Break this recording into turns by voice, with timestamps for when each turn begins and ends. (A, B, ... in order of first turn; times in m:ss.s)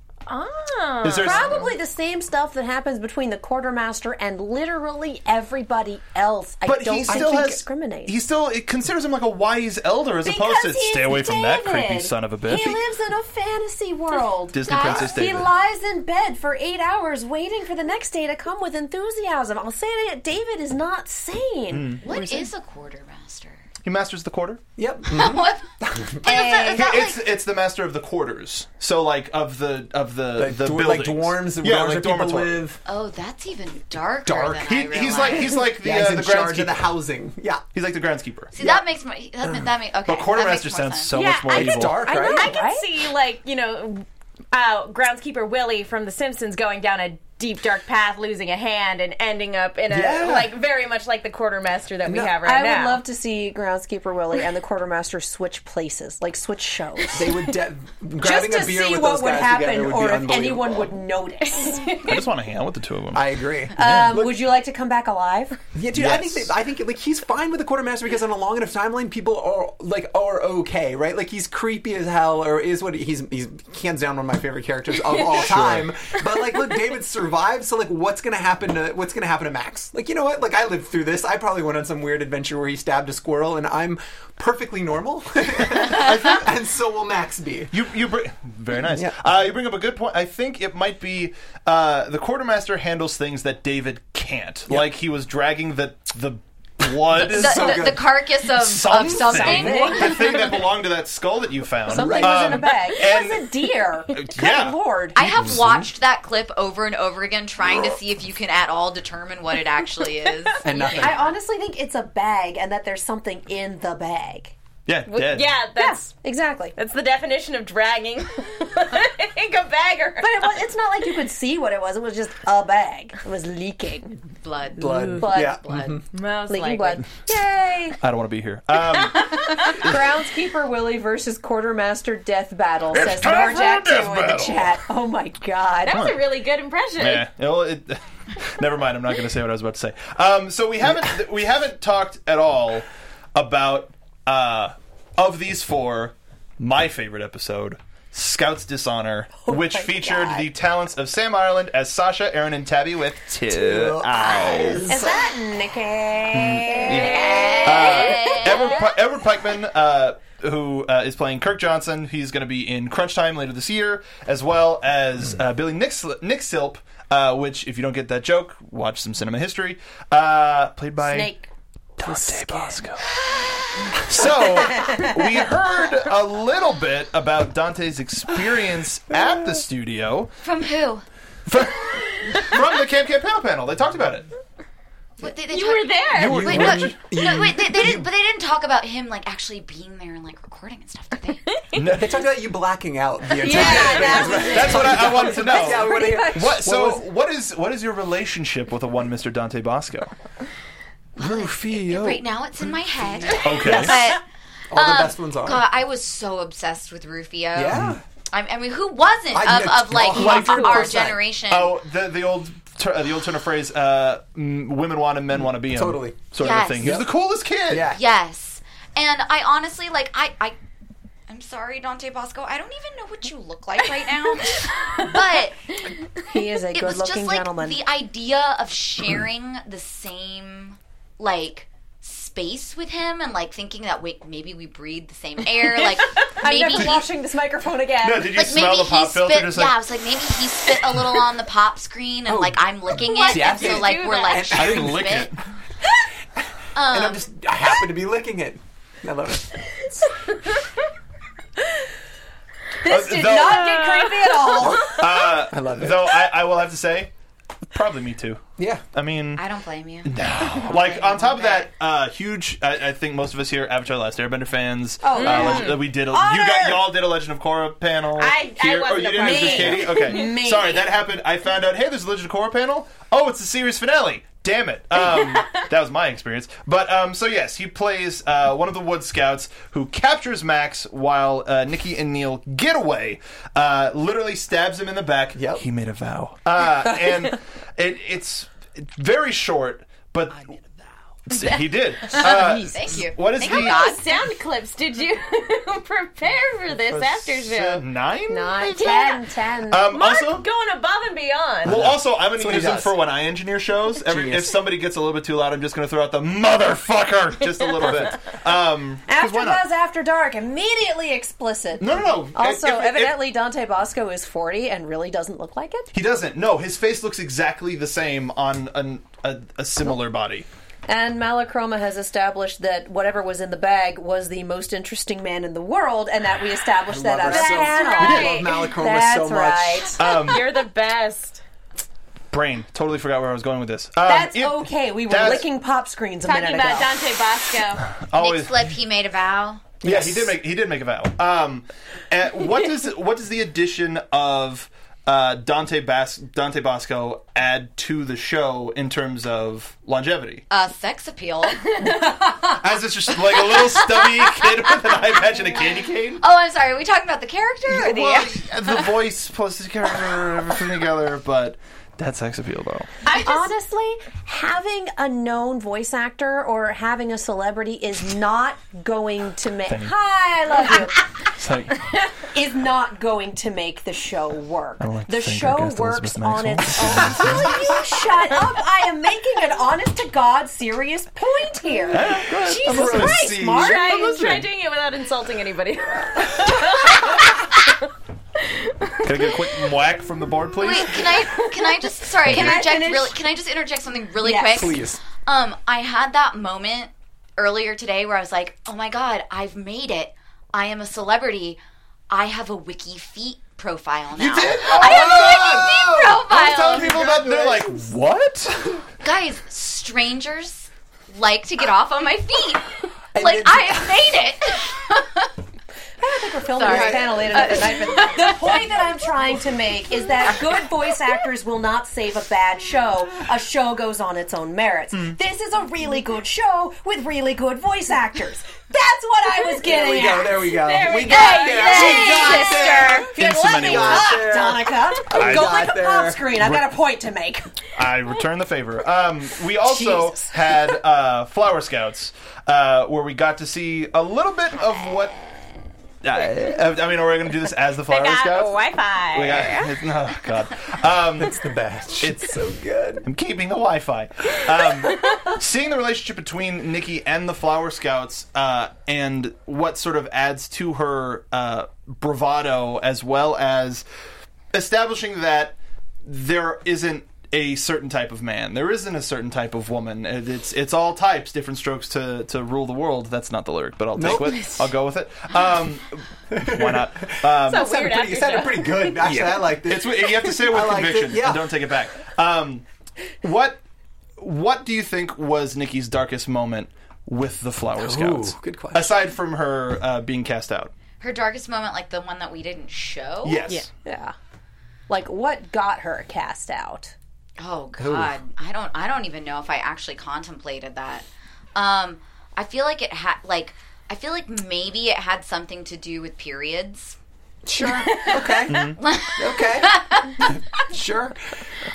0:00.3-0:01.7 A
0:01.0-0:01.7 B
0:01.2-0:08.2 C
0:06.6-0:12.8 B
0:07.1-0:07.4 D
0:10.2-0:22.5 C
0:14.5-0:15.5 B
0:14.7-0:15.2 E
0:21.7-0:22.0 B
0:22.0-0:23.7 E
0:23.8-0:24.6 B
0:24.8-0:26.3 D
0:25.1-0:27.2 E
0:26.3-0:26.8 C
0:26.7-0:32.6 B
0:30.4-0:32.8 D
0:32.8-0:35.6 E
0:34.3-0:34.7 D
0:34.7-0:36.9 B
0:35.6-0:37.6 D
0:37.7-0:38.5 B
0:38.5-0:41.2 E
0:40.1-0:42.0 B
0:41.1-0:53.0 A
0:41.5-0:42.5 D
0:41.8-0:42.9 C
0:49.9-0:50.5 D
0:52.1-0:52.4 D
0:52.4-0:57.5 C
0:57.1-1:00.9 D
0:58.2-1:02.2 C
1:02.0-1:04.1 B
1:03.1-1:04.3 D
1:03.7-1:05.6 C
1:05.7-1:27.7 D
1:05.9-1:06.5 B
1:15.4-1:15.9 B
1:25.9-1:26.4 B
1:27.7-1:38.0 B
1:28.9-1:29.2 D
1:37.1-1:38.0 D
1:37.2-1:40.6 E
1:38.5-1:43.5 B
1:39.3-1:40.4 C
1:41.9-1:45.3 C
1:41.9-1:42.7 D
1:44.1-1:44.8 B
1:45.2-1:51.3 E
1:45.2-1:45.9 D
1:50.6-1:51.3 D
1:50.9-1:54.6 C
1:54.9-1:55.6 B
1:55.1-1:56.2 A
1:55.8-1:56.8 C
1:56.8-2:00.4 A
2:00.2-2:04.2 C
2:04.4-2:06.0 E
2:04.8-2:06.0 D
2:05.2-2:05.6 C
2:06.1-2:07.1 A
2:06.5-2:08.0 C
2:08.0-2:10.0 B
2:09.8-2:16.0 C
2:12.9-2:14.7 B
2:15.8-2:17.3 A
2:15.9-2:16.2 B
2:17.0-2:34.9 B
2:29.4-2:30.5 C
2:33.5-2:35.2 D
2:34.9-2:38.0 C
2:36.3-2:51.3 B
2:36.9-2:38.8 E
2:37.2-2:38.4 A
2:51.0-2:51.5 C
2:52.0-2:53.1 B
2:52.0-2:52.8 C
2:53.9-3:00.3 B
2:54.8-2:55.2 C
3:00.4-3:01.0 E
3:01.5-3:04.3 B
3:05.2-3:11.5 E
3:05.5-3:06.6 A
3:06.1-3:07.0 B
3:06.2-3:08.1 D
3:11.5-3:11.8 A
3:11.7-3:12.1 B
3:11.8-3:17.1 D
3:13.4-3:15.1 A
3:13.5-3:16.6 C
3:13.6-3:20.1 B
3:21.2-3:31.7 E
3:21.2-3:22.2 D
3:23.2-3:24.2 D
3:23.4-3:24.0 B
3:24.7-3:25.7 D
3:27.6-3:28.0 D
3:27.7-3:28.0 B
3:29.3-3:31.2 D
3:30.2-3:30.9 A
3:30.2-3:31.0 B
3:31.5-3:37.9 B
3:35.6-3:36.2 D
3:36.4-3:36.9 E
3:36.8-3:37.1 D
3:37.7-3:38.0 D
3:37.9-3:40.6 E
3:41.3-3:45.9 E
3:46.2-3:47.8 C
3:46.7-3:57.1 E
3:56.4-3:58.4 C
3:58.0-3:59.8 B
3:58.3-4:05.3 E
4:02.3-4:05.2 D
4:03.1-4:04.5 A
4:04.6-4:05.4 B
4:06.8-4:07.2 E
4:06.9-4:10.0 D
4:12.8-4:15.0 C
4:12.9-4:13.8 B
4:13.8-4:14.7 A
4:14.6-4:16.2 D
4:14.8-4:17.1 B
4:17.7-4:19.4 B
4:18.6-4:18.8 D
4:19.4-4:21.7 E
4:20.0-4:50.6 B
4:25.0-4:26.8 C
4:25.1-4:26.8 A
4:28.2-4:30.4 A
4:29.2-4:30.9 C
4:35.2-4:35.6 A
4:45.4-4:45.6 D
4:51.3-4:53.9 B
4:52.1-4:54.1 E
4:53.4-4:57.8 A
4:56.9-4:59.0 B
4:58.3-4:59.9 C
4:58.8-4:59.2 A
4:59.7-5:00.5 B
4:59.9-5:01.8 A
5:01.6-5:02.9 D
5:01.6-5:09.7 B
5:04.1-5:04.6 D
5:09.1-5:15.9 C
5:11.8-5:13.2 B
5:15.9-5:20.5 B
5:20.9-5:30.0 C
5:26.9-5:29.9 D
5:27.2-5:28.7 A
5:30.0-5:30.4 B
5:30.0-5:31.4 A
5:32.3-5:35.5 B
5:34.0-5:37.0 C
5:36.2-5:38.0 A
5:38.0-5:38.6 B
5:38.1-5:39.7 E
5:39.8-5:40.4 D
5:39.8-5:50.4 B
5:50.5-5:51.9 E
5:52.5-5:56.2 B
5:53.5-5:54.6 E
5:56.2-5:58.9 E
5:57.7-6:03.0 B
6:03.1-6:03.4 A
6:03.1-6:11.0 C
6:09.7-6:09.9 B
6:11.4-6:11.8 B
6:12.3-6:24.4 C
6:14.8-6:17.6 B
6:21.9-6:24.5 B
6:22.8-6:27.8 A
6:28.4-6:29.6 A
6:29.0-6:31.0 B
6:30.6-6:41.6 E
6:32.2-6:33.2 C
6:32.3-6:32.6 B
6:34.2-6:34.8 C
6:34.5-6:35.0 D
6:42.1-6:47.0 E
6:44.2-6:48.8 B
6:44.6-6:46.2 D
6:46.7-6:47.8 D
6:49.0-6:55.3 E
6:53.1-6:54.0 D
6:56.0-7:10.5 C
6:56.6-6:58.8 E
6:56.6-6:57.6 D
7:09.6-7:16.4 D
7:10.4-7:12.7 A
7:11.0-7:13.1 E
7:11.7-7:17.5 C
7:13.1-7:14.2 B
7:15.1-7:15.7 B
7:16.4-7:16.7 B
7:17.8-7:25.2 B
7:19.6-7:20.3 C
7:26.0-7:31.4 B
7:27.9-7:29.8 A
7:31.2-7:33.1 D
7:32.0-7:32.4 B
7:33.0-7:43.8 B
7:44.5-7:57.7 B
7:54.0-7:54.6 D
7:54.3-7:54.7 A
7:56.3-8:01.5 D
7:57.4-7:59.2 A
7:59.0-8:02.6 B
8:03.2-8:03.6 B
8:04.2-8:10.7 B
8:07.8-8:09.0 D
8:11.0-8:13.5 E
8:13.2-8:13.7 B
8:13.8-8:14.2 C
8:14.9-8:17.0 C
8:17.4-8:27.0 E
8:17.8-8:18.1 D
8:27.4-8:31.2 D
8:27.8-8:28.5 A
8:28.5-8:28.8 B
8:28.8-8:30.2 E